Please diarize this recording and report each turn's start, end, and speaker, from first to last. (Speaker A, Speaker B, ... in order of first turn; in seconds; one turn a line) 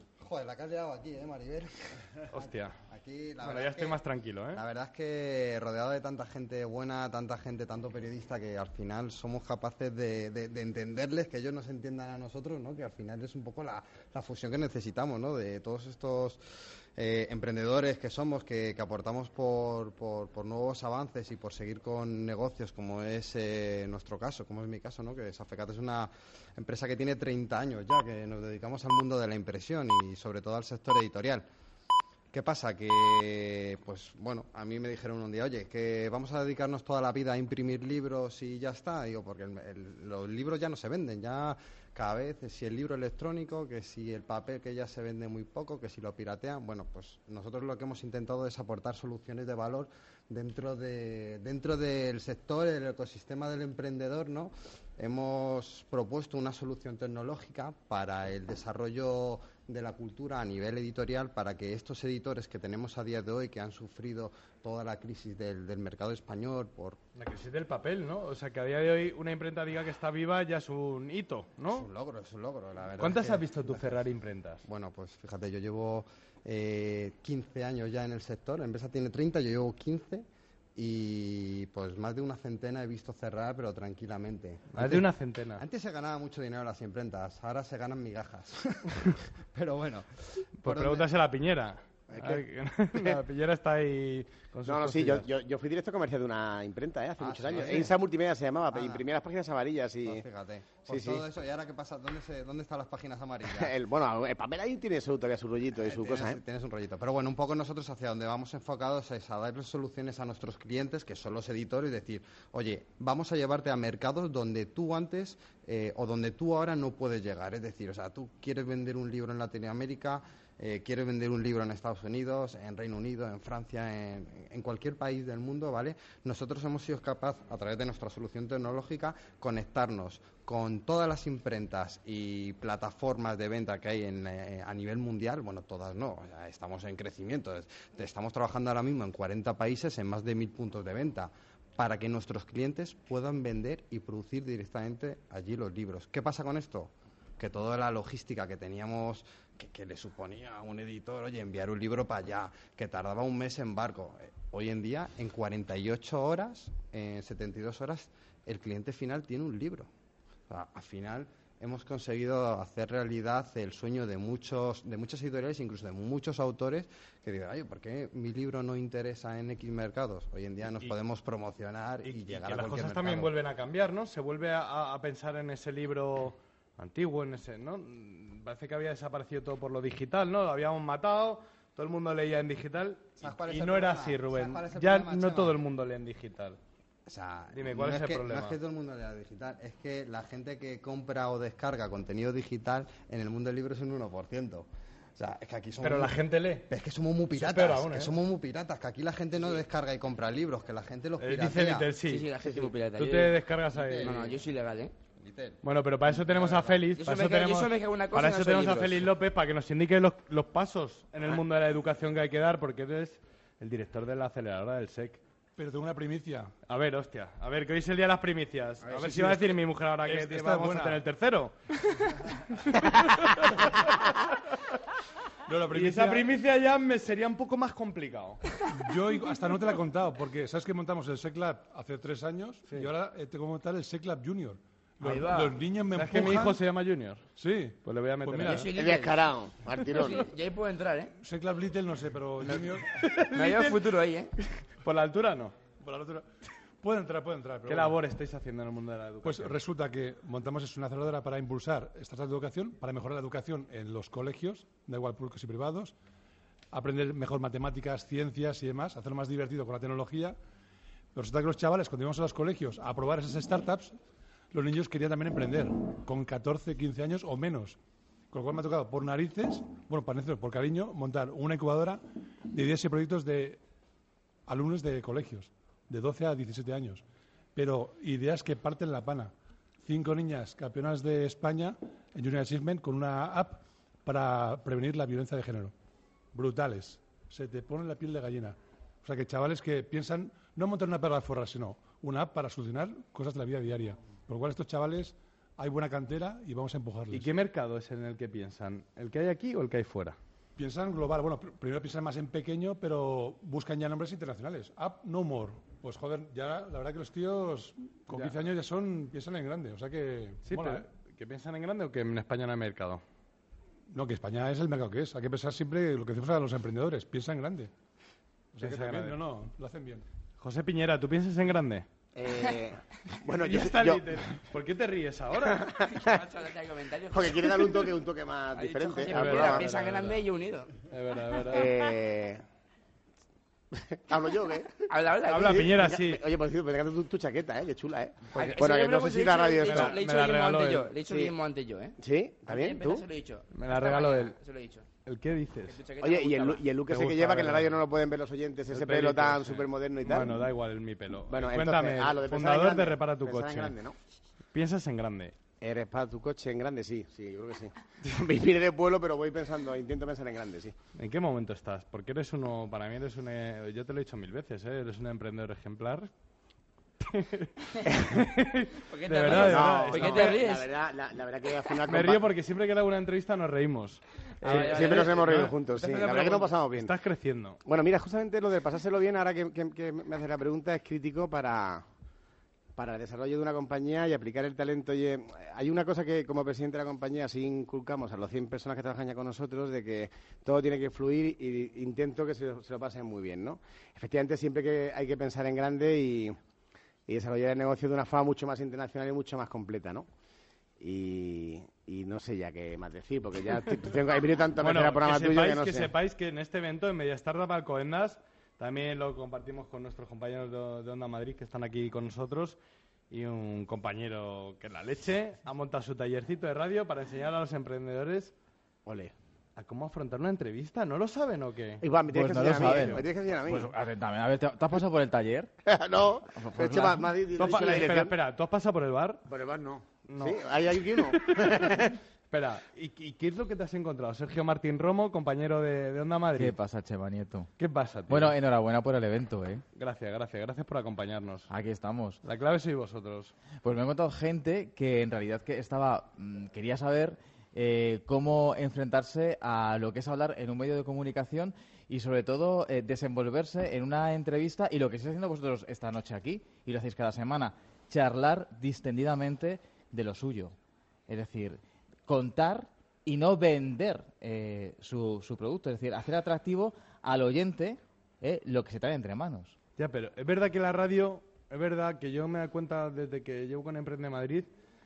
Speaker A: 0.2-4.0
Speaker B: 2.3-2.8
Speaker B: 3.4-4.6
Speaker A: 4.5-16.4
Speaker A: 17.0-31.4
Speaker A: 32.3-67.0
Speaker B: 67.2-71.9
Speaker A: 71.7-74.0
Speaker B: 73.0-74.6
Speaker A: 74.6-80.2
Speaker A: 80.8-88.9
Speaker B: 84.7-85.6
Speaker A: 89.5-91.1
Speaker B: 90.6-95.3
Speaker C: 92.1-93.2
Speaker C: 94.6-100.2
Speaker A: 97.2-98.0
Speaker A: 98.7-99.0
Speaker A: 100.0-103.7
Speaker C: 100.8-101.2
Speaker C: 103.5-106.4
Speaker A: 105.7-159.9
Speaker A: 160.5-173.3
Speaker B: 172.0-186.6
Speaker A: 183.2-185.6
Speaker A: 187.1-201.9
Speaker B: 187.5-188.6
Speaker B: 195.8-196.7
Speaker B: 197.3-198.1
Speaker B: 201.2-202.3
Speaker D: 202.0-203.4
Speaker B: 202.9-204.1
Speaker A: 203.7-204.4
Speaker D: 204.0-204.9
Speaker A: 205.2-205.6
Speaker B: 205.6-215.2
Speaker A: 206.2-206.8
Speaker D: 206.9-209.1
Speaker E: 215.6-216.5
Speaker B: 216.7-221.5
Speaker E: 218.8-221.0
Speaker B: 222.9-223.4
Speaker E: 225.5-226.3
Speaker B: 225.7-228.4
Speaker E: 228.7-236.6
Speaker D: 235.0-235.6
Speaker B: 235.9-237.2
Speaker E: 237.3-238.7
Speaker B: 237.8-238.7
Speaker D: 238.4-241.1
Speaker C: 238.7-240.3
Speaker E: 241.2-242.9
Speaker D: 242.4-242.7
Speaker B: 243.2-243.8
Speaker D: 243.3-244.3
Speaker B: 244.8-245.5
Speaker E: 245.8-246.3
Speaker E: 246.8-248.0
Speaker B: 247.7-249.5
Speaker E: 249.2-255.9
Speaker E: 256.7-260.4
Speaker E: 261.1-263.9
Speaker E: 264.5-267.8
Speaker E: 268.3-272.0
Speaker E: 272.5-273.6
Speaker E: 274.5-277.0
Speaker E: 277.5-285.7
Speaker E: 286.3-297.3
Speaker B: 297.1-300.2
Speaker E: 300.6-310.9
Speaker B: 310.4-313.0
Speaker E: 313.9-317.7
Speaker E: 318.5-320.0
Speaker B: 318.6-319.2
Speaker B: 320.4-321.9
Speaker C: 322.1-324.1
Speaker B: 323.3-325.7
Speaker C: 325.8-326.2
Speaker D: 325.9-327.9
Speaker C: 327.1-329.9
Speaker D: 328.5-330.7
Speaker B: 329.1-330.1
Speaker B: 330.9-331.7
Speaker C: 331.5-332.4
Speaker C: 333.9-334.8
Speaker D: 334.9-335.7
Speaker B: 335.3-336.2
Speaker C: 335.4-339.9
Speaker B: 338.3-338.7
Speaker D: 338.3-344.9
Speaker B: 339.6-340.9
Speaker C: 341.0-341.3
Speaker C: 342.0-343.0
Speaker B: 343.5-344.3
Speaker B: 345.1-345.8
Speaker D: 345.7-346.7
Speaker C: 346.0-350.4
Speaker B: 346.9-347.8
Speaker B: 348.7-353.8
Speaker C: 351.3-353.9
Speaker B: 354.5-355.3
Speaker C: 355.6-360.7
Speaker B: 360.9-366.1
Speaker B: 367.0-370.4
Speaker D: 368.9-370.7
Speaker C: 369.2-372.2
Speaker B: 371.8-377.6
Speaker D: 374.4-375.3
Speaker C: 374.4-376.9
Speaker C: 377.6-381.8
Speaker C: 382.8-396.4
Speaker C: 397.1-400.1
Speaker C: 400.8-405.9
Speaker B: 404.6-412.6
Speaker B: 413.1-418.3
Speaker C: 418.9-419.1
Speaker B: 419.6-421.8
Speaker C: 421.8-423.7
Speaker F: 422.1-425.5
Speaker B: 422.5-423.0
Speaker C: 425.6-428.1
Speaker F: 426.3-427.1
Speaker B: 427.3-429.2
Speaker C: 429.3-431.9
Speaker B: 430.0-431.7
Speaker B: 432.3-436.5
Speaker F: 436.4-437.5
Speaker B: 437.6-438.4
Speaker F: 438.1-439.6
Speaker B: 439.8-441.5
Speaker F: 441.5-442.2
Speaker B: 442.2-443.3
Speaker F: 443.6-460.5
Speaker F: 461.1-469.5
Speaker B: 469.8-474.5